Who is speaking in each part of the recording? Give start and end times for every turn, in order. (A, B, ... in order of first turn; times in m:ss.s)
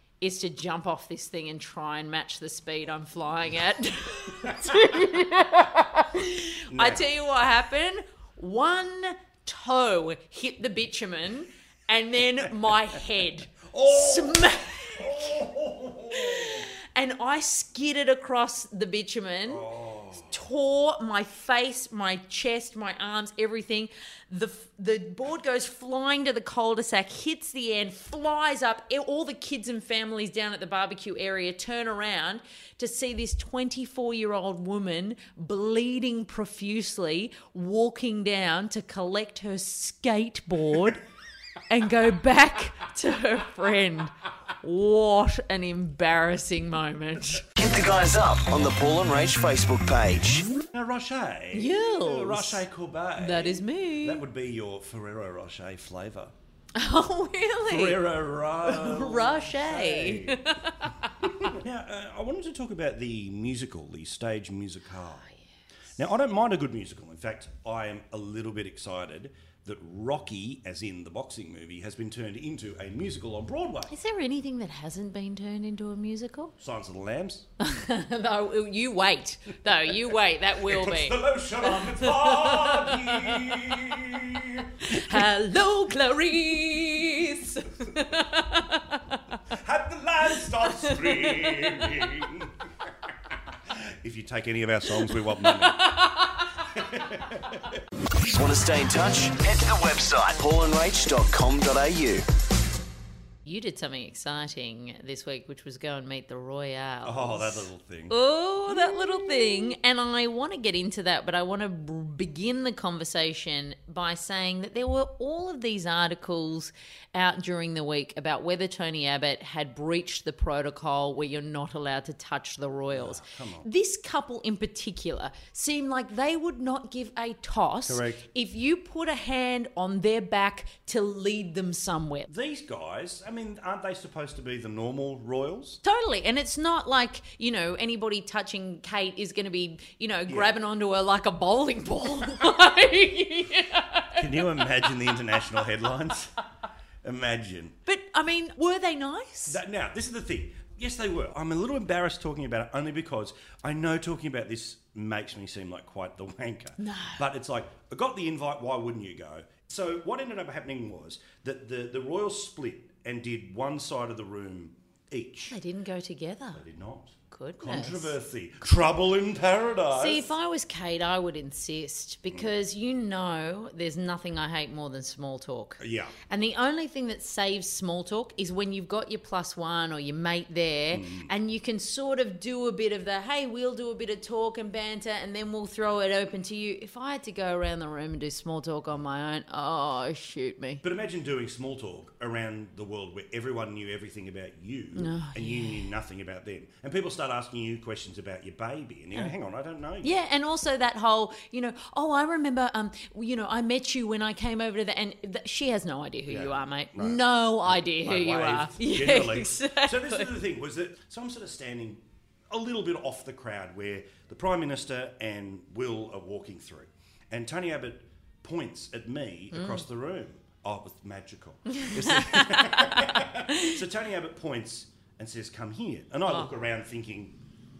0:00.2-0:15.3 A
0:04.4-0:05.0 B
0:06.7-0:07.1 B
0:12.4-0:13.0 B
0:13.7-0:16.7 B
0:16.1-0:19.6 A
0:19.5-0:20.4 B
0:20.3-0:41.0 A
0:41.7-0:47.5 A
0:47.6-0:50.5 C
0:50.7-0:56.3 B
0:51.5-0:52.6 A
0:53.2-0:54.2 A
0:56.8-0:58.0 A
0:57.7-1:00.4 B
0:58.6-1:01.3 A
1:01.2-1:05.3 B
1:06.0-1:13.9 B
1:13.9-1:16.5 A
1:16.6-1:17.5 B
1:17.6-1:23.8 A
1:20.6-1:25.3 B
1:24.8-1:29.4 A
1:29.5-1:36.0 B
1:30.6-1:32.1 A
1:35.1-1:36.6 A
1:36.7-1:37.8 B
1:38.3-1:42.2 C
1:43.4-2:12.3 A
1:47.0-1:48.2 B
1:48.7-1:49.7 B
2:02.9-2:03.7 B
2:07.9-2:08.2 B
2:12.3-2:15.8 B
2:15.8-2:25.6 A
2:20.3-2:20.5 B
2:24.2-2:26.3 B
2:27.0-2:27.8 B
2:27.9-2:29.6 A
2:29.5-2:45.6 B
2:36.8-2:37.2 A
2:45.5-2:46.6 A
2:46.5-2:50.3 B
2:47.3-2:48.2 A
2:49.9-3:10.8 A
2:55.8-2:56.2 B
3:00.9-3:01.3 B
3:10.8-3:20.2 B
3:15.0-3:15.9 A
3:20.0-3:30.3 A
3:26.3-3:47.4 B
3:39.5-3:39.8 A
3:41.7-3:43.8 A